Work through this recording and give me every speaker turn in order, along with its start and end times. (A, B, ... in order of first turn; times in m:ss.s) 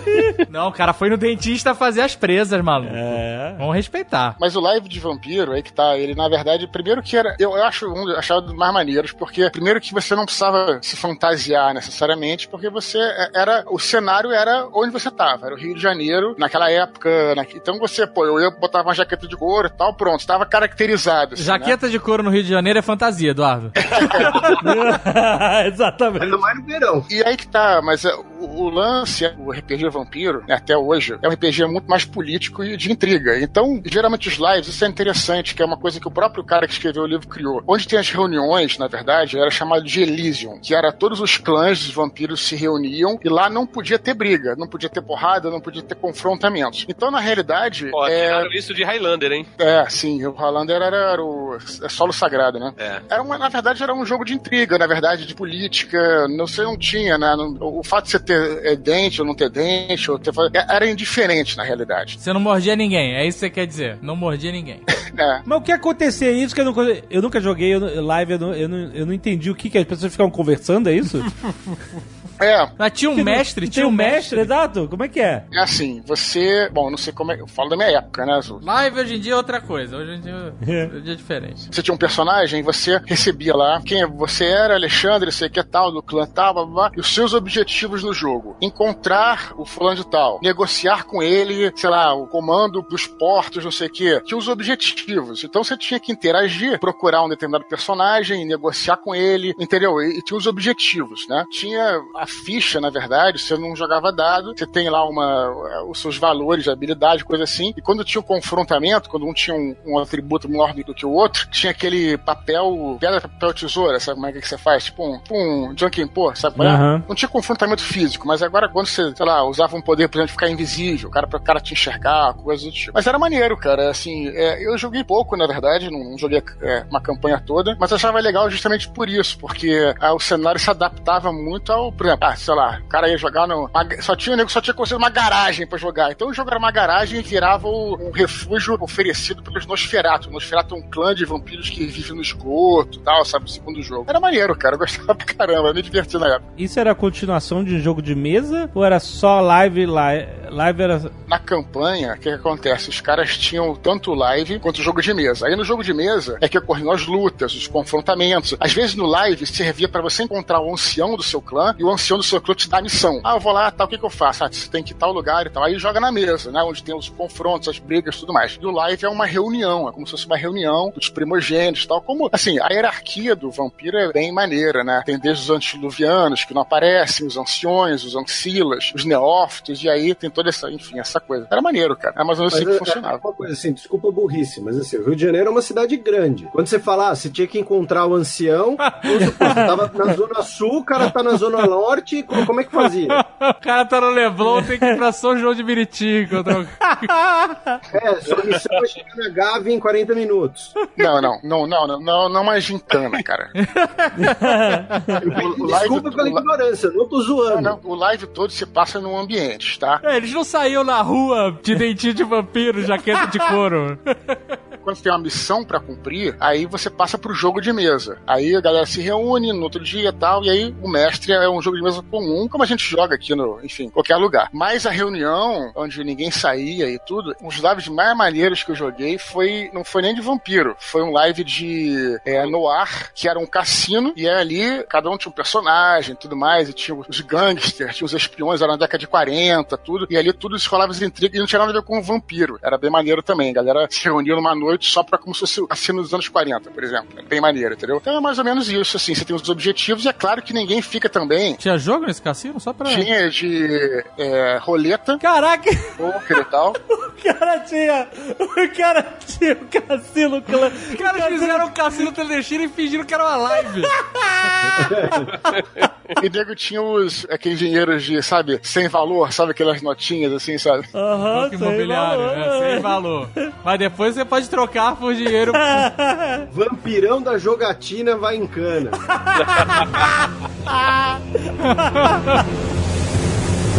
0:00.5-0:04.4 A
0:02.8-0:03.6 B
0:04.4-0:21.7 C
0:21.4-0:24.5 A
0:23.8-0:24.6 C
0:24.6-0:26.4 B
0:26.2-0:27.1 D
0:27.1-0:48.5 C
0:47.9-0:49.5 E
0:49.6-1:02.2 C
0:52.8-0:53.0 E
1:02.2-1:04.8 A
1:05.0-1:05.4 C
1:05.5-1:11.4 B
1:12.4-1:12.7 C
1:12.8-1:14.5 A
1:13.1-1:15.4 B
1:15.5-1:18.6 C
1:18.6-1:21.7 A
1:20.6-1:20.9 B
1:21.7-2:26.4 C
1:56.6-1:57.0 B
2:26.6-2:31.1 B
2:31.3-3:03.2 C
3:02.5-3:13.2 D
3:09.2-3:09.7 B
3:13.2-3:17.1 A
3:14.4-3:14.9 B
3:16.5-3:17.8 B
3:17.9-3:20.7 D
3:21.0-3:23.5 C
3:23.6-3:25.2 A
3:24.2-3:25.2 B
3:25.2-3:27.8 D
3:25.3-3:26.4 C
3:27.5-3:30.0 C
3:30.0-3:34.6 A
3:34.8-4:11.6 C
4:11.6-4:13.1 A
4:12.8-4:15.2 C
4:15.2-4:15.9 A
4:16.0-4:16.8 C
4:16.9-4:22.1 B
4:20.9-4:23.9 A
4:23.9-4:25.6 B
4:24.8-4:25.3 D
4:25.5-4:25.9 E
4:26.2-4:30.9 C
4:30.9-4:33.0 B
4:31.3-4:35.8 A
4:35.5-4:36.5 B
4:36.5-4:39.0 D
4:39.1-4:41.2 B
4:39.4-4:40.1 E
4:41.6-4:42.4 A
4:41.8-4:42.4 B